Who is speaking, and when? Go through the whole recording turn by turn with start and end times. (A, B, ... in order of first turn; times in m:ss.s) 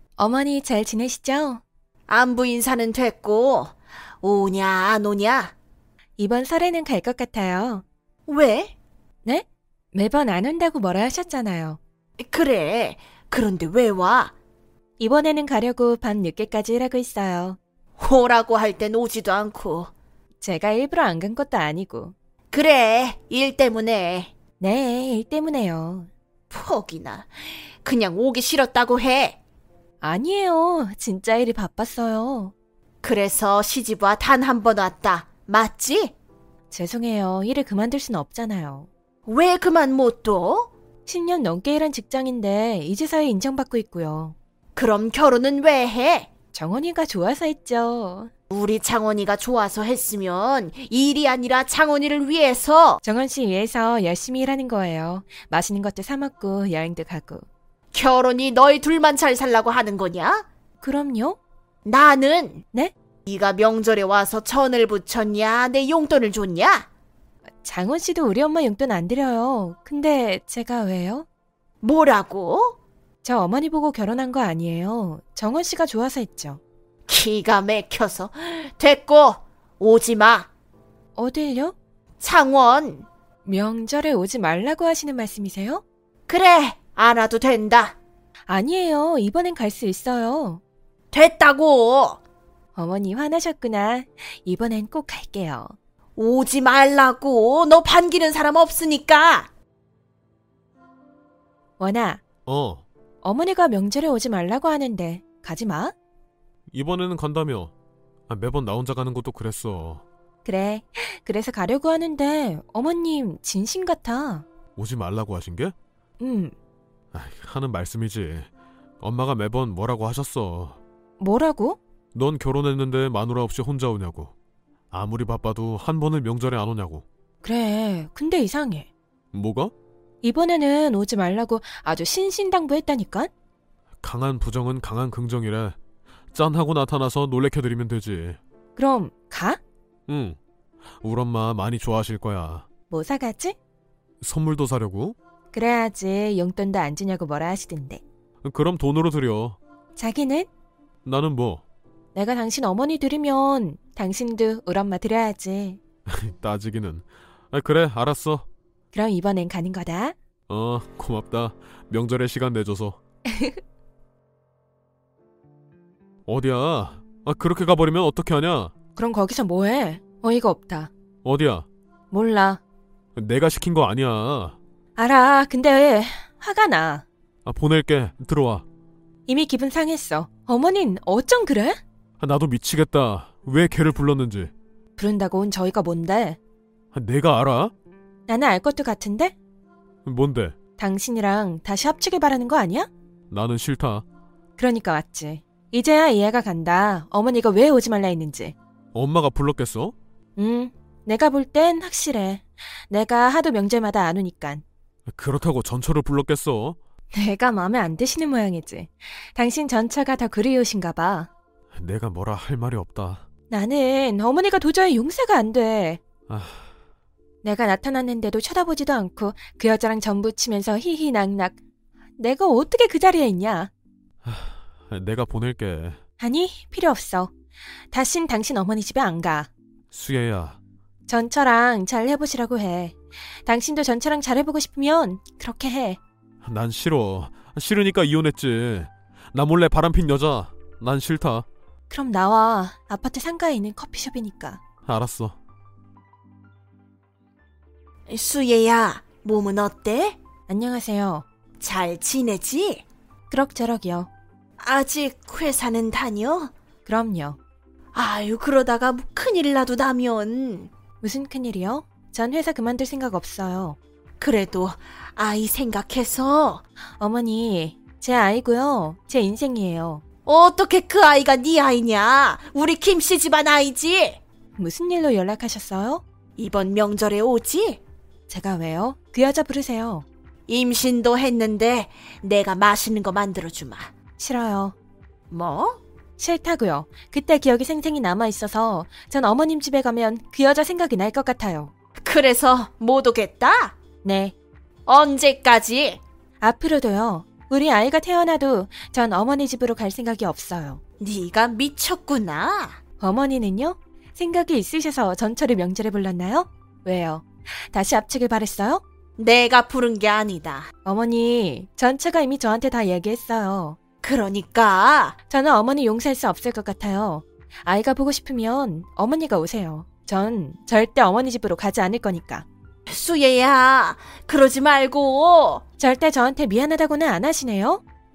0:00.2-0:01.6 A
0:02.1-0:05.5 B
0:06.2-0:07.8 A
0:08.3-0:08.7 B
0:09.2-0:11.8 A
0:12.2-0:14.3 B
0:15.0-0:17.6 A
0:18.0-0:19.9 B
0:20.4-0:22.1 A
0:22.5-0:24.3 B
0:24.6-0:26.1 A
0:26.5-0:29.4 B
0:30.0-0:32.5 A
0:33.0-0:36.1 B
0:36.7-0:38.9 A
0:39.3-0:40.7 B
0:41.1-0:44.4 A
0:44.8-0:46.3 B
0:46.5-0:48.3 A
0:48.5-0:53.0 B
0:53.0-0:57.4 A
0:57.9-1:00.4 B
1:00.8-1:01.4 A
1:01.8-1:02.6 B
1:03.3-1:06.9 B
1:07.6-1:11.3 A
1:11.8-1:12.8 B
1:13.2-1:16.6 A
1:17.1-1:20.5 B
1:21.2-1:21.8 A
1:22.2-1:23.1 B
1:23.5-1:25.8 A
1:26.3-1:28.0 B
1:28.5-1:30.6 A
1:31.1-1:32.2 B
1:32.8-1:35.7 A
1:36.2-1:39.5 B
1:41.8-1:42.2 A
1:42.5-1:42.8 C
1:43.2-1:45.9 A
1:46.7-1:47.7 C
1:48.3-1:50.0 C
1:50.4-1:54.4 A
1:54.8-1:55.7 C
1:56.2-1:56.5 A
1:57.1-1:58.5 C
1:59.0-2:00.8 C
2:01.2-2:01.8 A
2:02.1-2:04.3 C
2:04.9-2:07.0 C
2:07.4-2:08.9 A
2:09.3-2:09.7 C
2:10.2-2:13.3 A
2:14.0-2:15.8 C
2:16.3-2:18.4 C
2:18.8-2:19.6 A
2:20.1-2:20.4 C
2:21.0-2:22.7 C
2:22.9-2:23.6 A
2:24.2-2:25.2 C
2:25.5-2:28.0 A
2:28.4-2:29.6 C
2:30.0-2:30.5 A
2:31.0-2:31.6 C
2:32.2-2:35.8 A
2:36.1-2:38.5 C
2:38.9-2:40.2 A
2:40.5-2:43.0 C
2:43.3-2:43.6 A
2:46.3-2:48.7 C
2:49.0-2:50.9 A
2:51.2-2:51.7 C
2:52.1-2:52.6 A
2:53.2-2:54.6 C
2:55.0-2:57.0 A
2:57.4-2:58.6 C
2:59.3-3:01.8 A
3:02.2-3:04.5 C
3:05.0-3:06.4 A
3:06.9-3:07.7 C
3:08.3-3:09.4 A
3:10.0-3:10.6 C
3:10.8-3:12.9 A
3:13.3-3:14.0 C
3:14.6-3:18.6 A
3:18.9-3:19.9 C
3:20.4-3:24.6 A
3:25.1-3:26.8 C
3:27.1-3:31.3 A
3:31.8-3:33.2 C
3:33.5-3:36.0 A
3:36.3-3:36.6 C
3:37.4-3:41.6 A
3:42.2-3:43.7 A
3:44.2-3:46.0 C
3:46.2-3:47.3 A
3:47.9-3:49.5 A
3:49.9-3:50.6 C
3:51.1-3:56.0 A
3:56.4-4:01.5 C
4:01.9-4:04.6 A
4:04.8-4:05.4 C
4:08.1-4:10.2 B
4:10.5-4:11.3 A
4:11.6-4:12.8 B
4:13.3-4:14.1 A
4:14.6-4:16.5 B
4:16.8-4:17.4 A
4:17.9-4:20.7 B
4:21.0-4:23.8 A
4:24.2-4:26.6 B
4:27.0-4:30.0 A
4:30.3-4:34.2 B
4:34.6-4:36.0 A
4:36.4-4:37.8 B
4:38.3-4:40.1 A
4:40.5-4:43.9 B
4:44.2-4:44.8 A
4:45.3-4:45.8 B
4:46.2-4:51.7 A
4:52.0-4:53.7 B
4:54.0-4:54.4 A
4:54.9-4:56.0 B
4:56.4-5:00.8 A
5:01.0-5:02.8 B
5:03.0-5:08.8 A
5:09.2-5:10.7 B
5:10.8-5:13.8 A
5:14.0-5:15.2 B
5:15.3-5:22.5 A
5:22.9-5:25.6 B
5:25.8-5:27.8 A